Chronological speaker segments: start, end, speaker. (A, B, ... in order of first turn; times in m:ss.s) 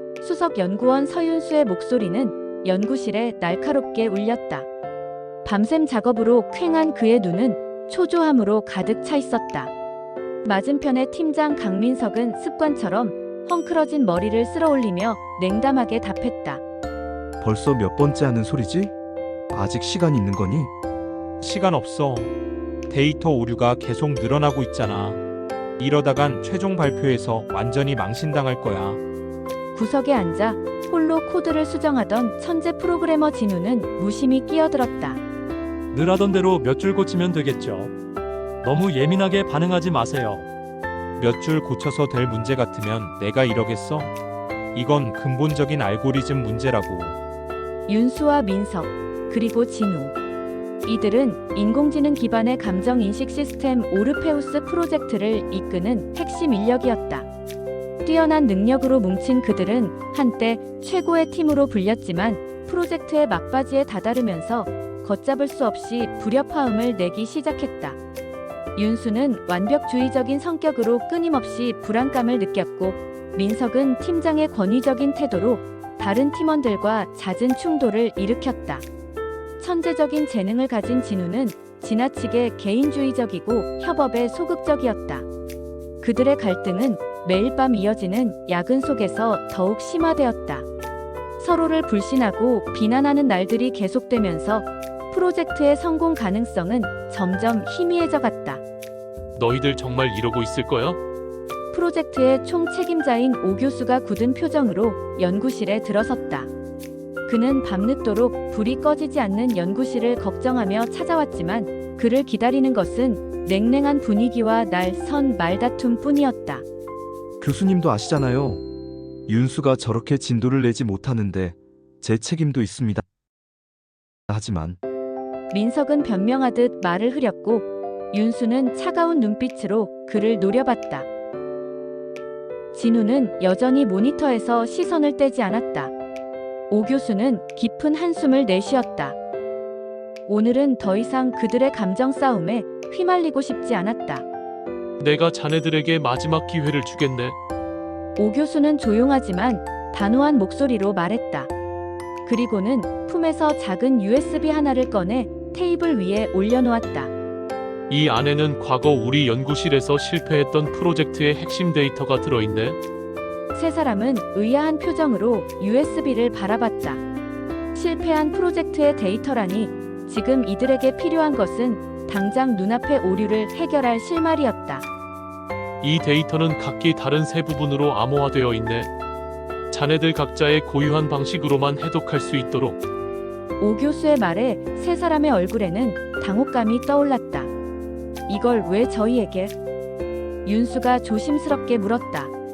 0:00.2-0:04.7 A
0:05.4-0:09.7 A
0:10.4-0:16.6 A
0:17.4-0:18.9 B
0:19.5-0:20.7 B
0:21.4-0:22.3 C
0:22.9-0:25.2 C
0:25.8-0:29.0 C
0:29.7-0:35.2 A
0:35.9-0:37.9 D
0:38.6-0:40.5 D
0:41.2-0:44.1 C
0:44.7-0:47.2 C
0:47.9-0:50.2 A
0:50.8-0:57.3 A
0:58.0-1:08.0 A
1:08.7-1:18.8 A
1:19.6-1:25.3 A
1:26.0-1:30.7 A
1:31.4-1:38.6 A
1:39.4-1:41.0 E
1:41.7-1:46.5 A
1:47.3-1:56.6 A
1:57.4-1:58.6 B
1:59.3-2:03.0 B
2:04.3-2:04.8 B
2:05.5-2:11.1 A
2:12.7-2:15.9 A
2:16.7-2:19.2 A
2:20.3-2:24.3 A
2:25.0-2:27.4 E
2:28.2-2:31.5 A
2:32.2-2:37.1 A
2:37.9-2:42.8 E
2:43.5-2:47.0 A
2:47.7-2:54.9 A
2:55.8-2:58.9 E
2:59.7-3:02.8 E
3:03.6-3:07.5 A
3:08.3-3:09.5 A
3:10.4-3:12.3 A